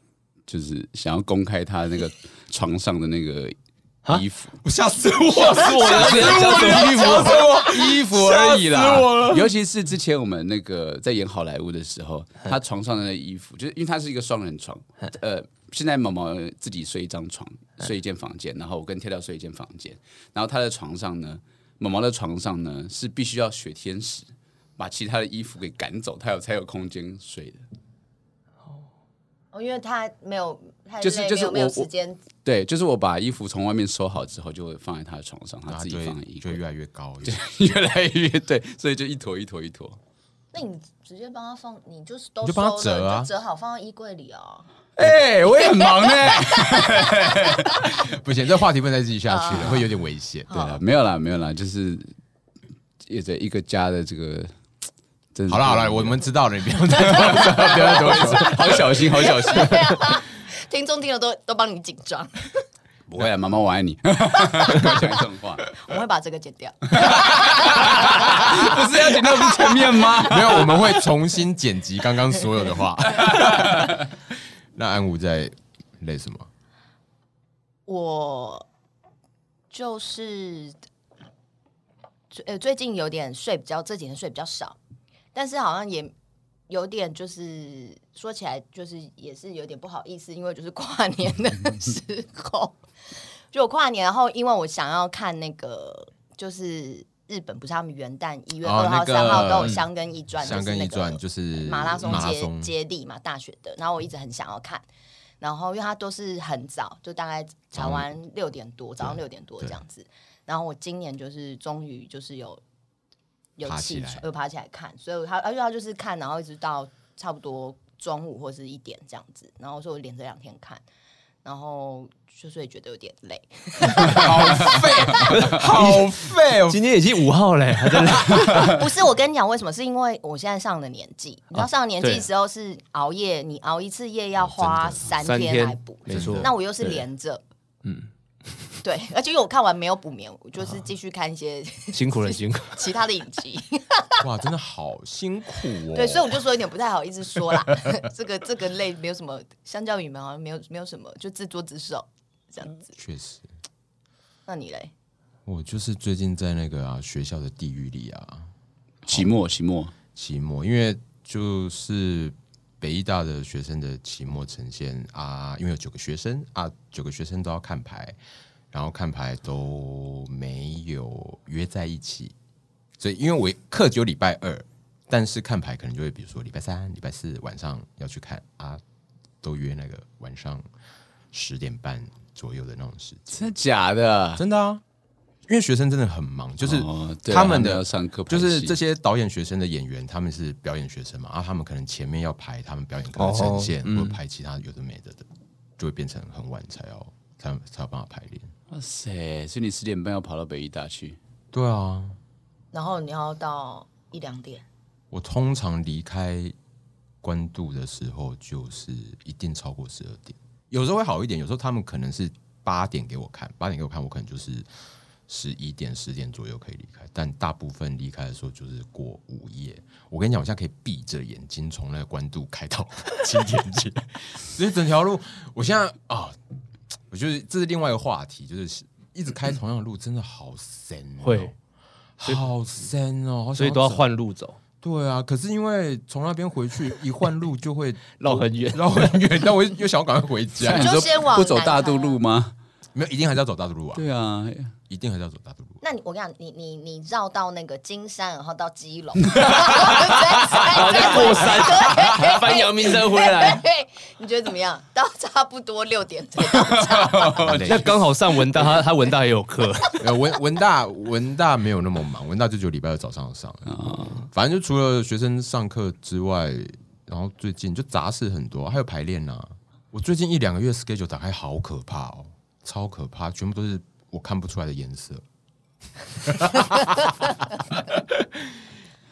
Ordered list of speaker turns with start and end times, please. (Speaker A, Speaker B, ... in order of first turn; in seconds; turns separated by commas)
Speaker A: 0.5-4.6, Speaker B: 4.6-9.5, Speaker C: 5.4-7.3, Speaker A: 5.7-27.6, Speaker D: 29.5-32.2, Speaker A: 31.0-31.9, Speaker A: 32.4-36.6, Speaker B: 35.7-37.6, Speaker A: 37.2-40.0, Speaker D: 40.5-44.7, Speaker B: 42.4-43.3, Speaker A: 45.0-47.9, Speaker D: 45.6-47.5, Speaker B: 47.8-50.5, Speaker D: 49.3-49.8, Speaker A: 49.5-49.8, Speaker D: 50.5-50.8, Speaker A: 50.5-52.1, Speaker A: 53.0-54.5, Speaker A: 55.3-56.2, Speaker B: 55.5-58.8, Speaker A: 57.0-60.0, Speaker D: 58.8-62.5, Speaker A: 63.1-65.7, Speaker D: 65.7-67.7, Speaker A: 67.0-71.0, Speaker B: 70.2-74.0, Speaker A: 73.3-73.9, Speaker B: 74.7-76.5, Speaker D: 77.9-78.7, Speaker D: 79.7-80.8, Speaker D: 82.3-84.8, Speaker D: 85.3-86.1, Speaker D: 86.7-92.8, Speaker D: 93.5-104.8, Speaker B: 98.6-99.8, Speaker B: 100.4-102.7, Speaker D: 105.4-112.6, Speaker B: 107.7-108.1, Speaker B: 109.0-109.8, Speaker D: 113.6-120.8, Speaker B: 113.6-114.2, Speaker D: 121.4-125.4, Speaker B: 124.0-126.8, Speaker C: 125.3-126.1, Speaker C: 126.7-128.8, Speaker D: 128.1-137.4, Speaker C: 131.5-132.2, Speaker B: 134.4-135.2, Speaker C: 135.2-137.0, Speaker B: 136.1-136.5, Speaker D: 138.8-144.2, Speaker C: 141.9-142.8, Speaker B: 144.2-146.3, Speaker D: 145.9-152.9, Speaker B: 152.9-153.5, Speaker D: 154.5-154.9, Speaker B: 155.4-158.5, Speaker A: 159.0-159.9, Speaker B: 159.1-159.3, Speaker B: 160.1-168.2, Speaker B: 168.7-172.3, Speaker B: 173.0-178.8, Speaker B: 179.4-180.6, Speaker B: 181.3-183.5, Speaker A: 183.3-184.4, Speaker B: 184.4-184.8, Speaker B: 185.5-195.2, Speaker A: 186.6-188.8, Speaker C: 193.2-194.2, Speaker B: 195.8-198.5, Speaker A: 198.7-201.2, Speaker B: 201.5-202.2, Speaker D: 202.7-204.6, Speaker B: 205.1-206.5, Speaker B: 207.2-214.7, Speaker B: 215.3-226.3, Speaker B: 227.1-231.5, Speaker C: 231.2-231.5, Speaker B: 232.2-234.0, Speaker C: 233.6-234.6, Speaker B: 234.8-240.9, Speaker C: 238.2-239.1, Speaker A: 240.6-242.5, Speaker D: 240.7-242.2, Speaker B: 242.9-244.0, Speaker A: 243.9-244.7, Speaker B: 244.9-245.8, Speaker D: 245.8-257.4, Speaker C: 249.4-253.6, Speaker A: 256.6-257.9, Speaker B: 257.4-258.0, Speaker C: 257.6-260.1, Speaker B: 260.0-275.2, Speaker A: 263.7-264.2, Speaker B: 276.1-277.1